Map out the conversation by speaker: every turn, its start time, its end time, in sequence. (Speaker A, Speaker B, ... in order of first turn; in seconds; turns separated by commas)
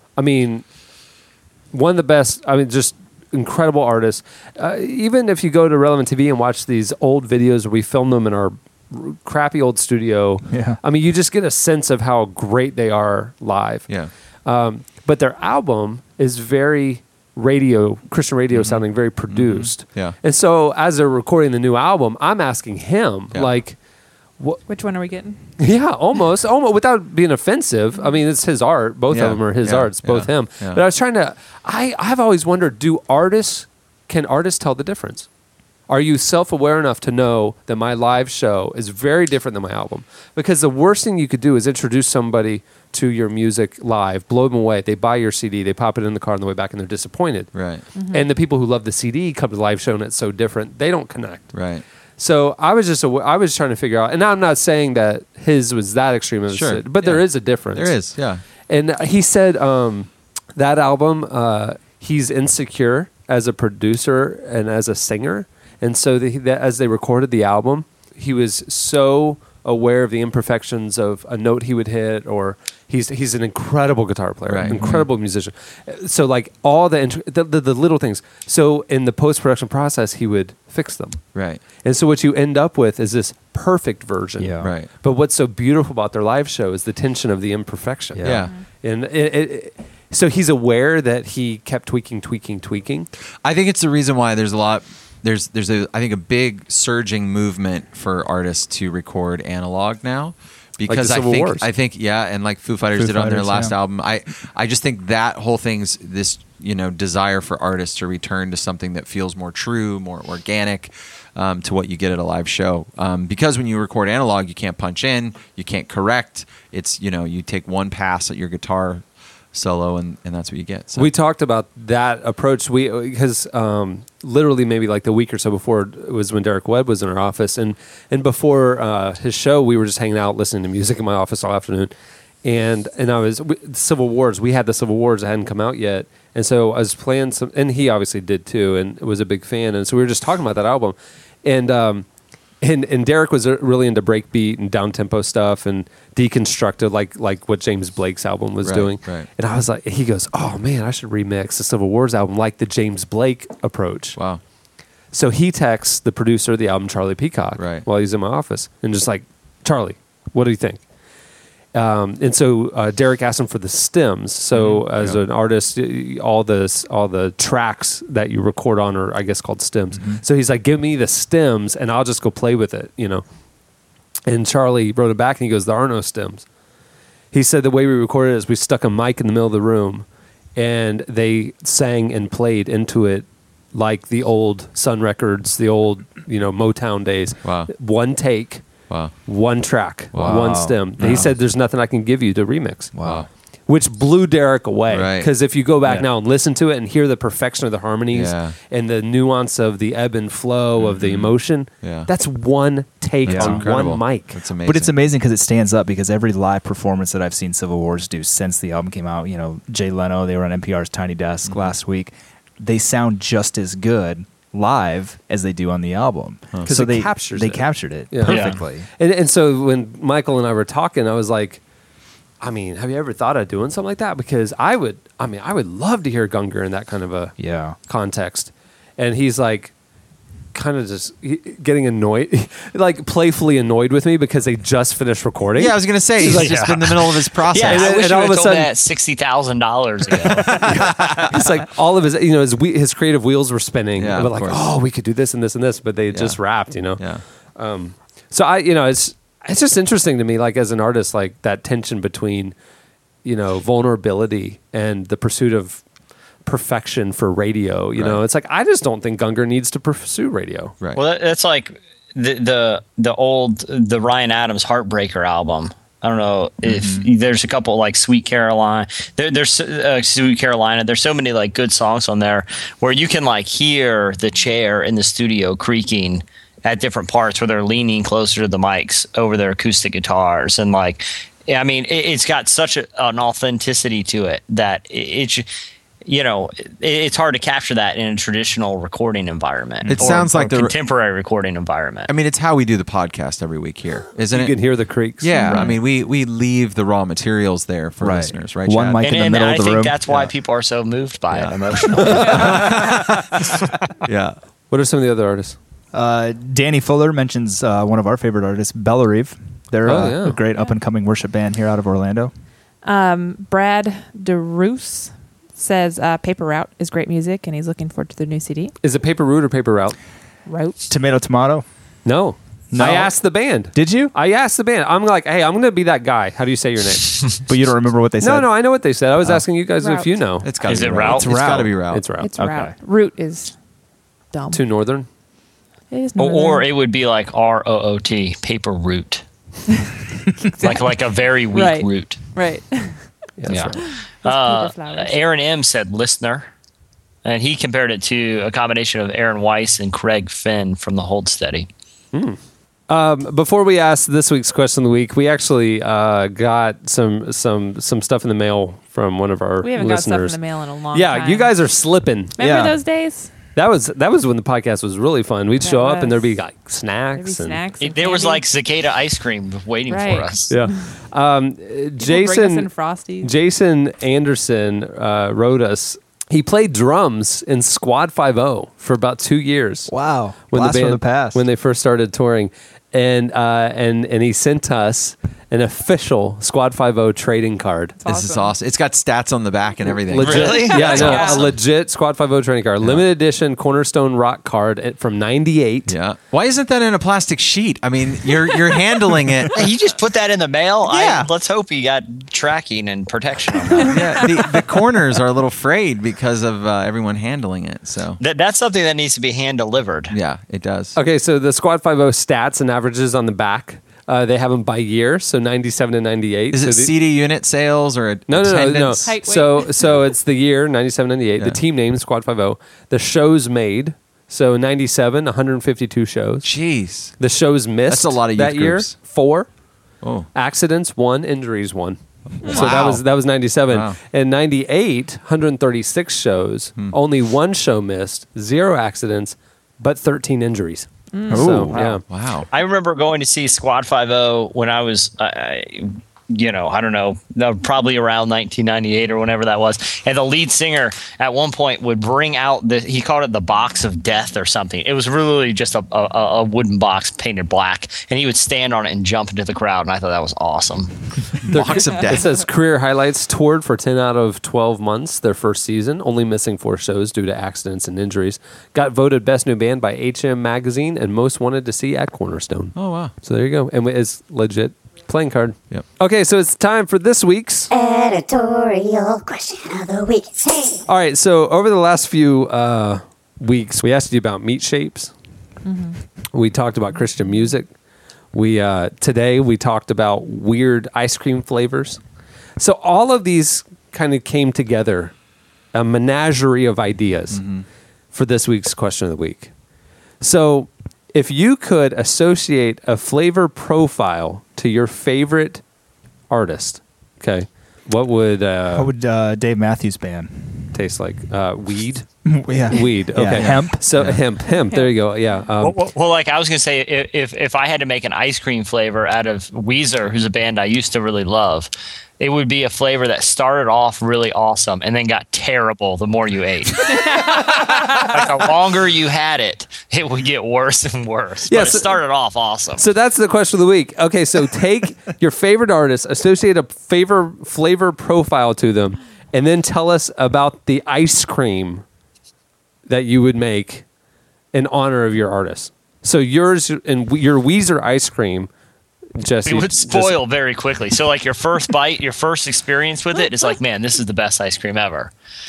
Speaker A: 0.2-0.7, Speaker A: 1.7-13.9, Speaker B: 10.5-10.8, Speaker A: 14.4-23.8, Speaker C: 18.5-20.1, Speaker D: 24.7-25.4, Speaker A: 25.6-35.3, Speaker C: 29.1-30.8, Speaker A: 35.9-51.6, Speaker C: 47.5-47.9, Speaker D: 48.0-48.3, Speaker C: 51.5-51.8, Speaker A: 52.2-58.0, Speaker C: 56.5-58.4, Speaker A: 58.7-81.2, Speaker C: 74.5-75.0, Speaker B: 74.7-75.1, Speaker C: 81.3-81.6, Speaker A: 81.8-88.3, Speaker B: 84.4-84.7, Speaker C: 84.6-84.9, Speaker B: 88.2-88.5, Speaker C: 88.2-88.5, Speaker A: 88.8-93.1, Speaker C: 93.4-121.1, Speaker A: 100.9-101.7, Speaker B: 102.9-103.8, Speaker A: 121.0-131.9, Speaker A: 132.4-142.1, Speaker A: 142.6-154.2, Speaker C: 148.6-149.3, Speaker C: 154.2-154.4, Speaker A: 155.1-160.8, Speaker C: 157.6-157.9, Speaker A: 161.7-173.2, Speaker C: 164.5-165.2, Speaker B: 169.9-170.2, Speaker A: 174.3-176.4, Speaker A: 177.3-188.6, Speaker C: 187.4-187.7, Speaker C: 188.9-189.2, Speaker A: 189.3-192.9, Speaker C: 190.1-191.3, Speaker B: 190.2-191.3, Speaker B: 192.9-193.3, Speaker C: 193.0-193.3, Speaker A: 193.7-204.3, Speaker C: 194.9-196.1, Speaker C: 198.1-198.6, Speaker C: 200.8-202.1, Speaker C: 203.2-204.9, Speaker B: 203.3-203.7, Speaker B: 204.6-218.9, Speaker C: 211.5-211.7, Speaker A: 216.7-221.6, Speaker E: 218.3-218.6, Speaker A: 222.4-227.3, Speaker B: 227.4-227.8, Speaker A: 227.9-229.7, Speaker A: 230.5-236.6, Speaker C: 235.6-237.9, Speaker E: 236.2-240.6, Speaker A: 237.6-238.7, Speaker C: 240.4-241.7, Speaker A: 240.4-247.0, Speaker C: 243.9-244.6, Speaker C: 246.1-247.2, Speaker A: 247.6-252.6, Speaker A: 253.2-255.8, Speaker A: 256.4-260.8, Speaker C: 258.0-258.2, Speaker E: 260.9-285.5, Speaker B: 266.6-267.1, Speaker E: 286.1-292.1, Speaker B: 289.8-290.2, Speaker C: 289.9-290.7, Speaker C: 292.1-299.4, Speaker A: 294.3-295.6, Speaker D: 295.3-295.8, Speaker B: 298.0-300.3, Speaker E: 299.0-302.6, Speaker C: 301.3-304.4, Speaker A: 302.0-302.4, Speaker A: 304.7-305.6, Speaker B: 305.9-312.3, Speaker A: 309.9-310.4, Speaker D: 312.8-318.7, Speaker A: 318.8-320.0, Speaker D: 320.5-320.8, Speaker B: 320.9-321.6, Speaker A: 322.1-327.4, Speaker B: 322.7-323.2, Speaker B: 323.7-324.1, Speaker B: 327.5-328.5, Speaker A: 328.2-330.5, Speaker D: 329.8-330.2, Speaker C: 330.4-332.1, Speaker E: 330.7-331.3, Speaker B: 330.7-331.8, Speaker A: 331.9-332.3, Speaker D: 332.2-333.5, Speaker B: 332.4-332.8, Speaker D: 334.3-334.6, Speaker A: 334.5-335.1, Speaker D: 335.9-336.7, Speaker E: 336.2-339.2, Speaker D: 339.7-341.0, Speaker E: 340.6-342.2, Speaker D: 341.5-345.2, Speaker A: 343.4-343.9, Speaker E: 343.5-346.5, Speaker E: 347.2-351.7, Speaker A: 352.1-360.4, Speaker D: 359.6-361.6, Speaker A: 360.9-362.4, Speaker D: 362.4-363.3, Speaker B: 362.4-362.8, Speaker A: 363.6-367.6, Speaker D: 365.6-366.4, Speaker D: 367.1-368.5, Speaker E: 367.8-370.5, Speaker D: 369.9-370.8, Speaker A: 370.5-372.7, Speaker D: 372.0-373.3, Speaker A: 373.2-379.9, Speaker B: 379.9-381.4, Speaker A: 380.5-388.0, Speaker D: 388.0-388.5, Speaker C: 388.1-391.5, Speaker A: 390.1-395.9, Speaker E: 390.2-391.3, Speaker D: 390.4-391.5, Speaker C: 392.8-393.1, Speaker C: 395.9-399.7, Speaker E: 399.5-404.0, Speaker C: 400.9-401.3, Speaker C: 403.8-408.2, Speaker E: 408.2-410.1, Speaker C: 410.1-411.0, Speaker A: 410.9-416.9, Speaker C: 416.5-419.2, Speaker A: 418.3-426.5, Speaker D: 419.0-419.9, Speaker C: 426.4-427.1, Speaker A: 427.2-429.5, Speaker C: 427.9-429.0, Speaker C: 430.0-430.3, Speaker A: 430.3-442.0, Speaker C: 432.4-433.0, Speaker D: 432.4-432.7, Speaker E: 432.5-433.0, Speaker C: 433.7-434.0, Speaker D: 441.1-441.4, Speaker B: 441.3-441.8, Speaker C: 441.3-442.5, Speaker E: 442.5-460.9, Speaker C: 461.4-462.4, Speaker A: 461.5-477.7, Speaker C: 472.8-473.1, Speaker F: 477.7-480.8, Speaker A: 480.9-485.1, Speaker D: 485.6-486.0, Speaker A: 486.3-487.7, Speaker A: 488.3-492.0, Speaker A: 492.6-495.1, Speaker A: 495.7-497.4, Speaker C: 497.3-497.7, Speaker A: 498.1-499.5, Speaker A: 500.2-505.6, Speaker A: 506.3-508.9, Speaker B: 508.7-510.7, Speaker A: 510.7-512.1, Speaker B: 512.2-513.9, Speaker A: 512.7-515.8, Speaker C: 513.4-514.2, Speaker D: 514.6-514.9, Speaker E: 515.6-532.8, Speaker D: 526.9-527.4, Speaker A: 531.5-532.0, Speaker A: 532.8-541.8, Speaker A: 542.9-543.9, Speaker A: 544.5-548.5, Speaker A: 549.2-550.2, Speaker E: 549.5-555.1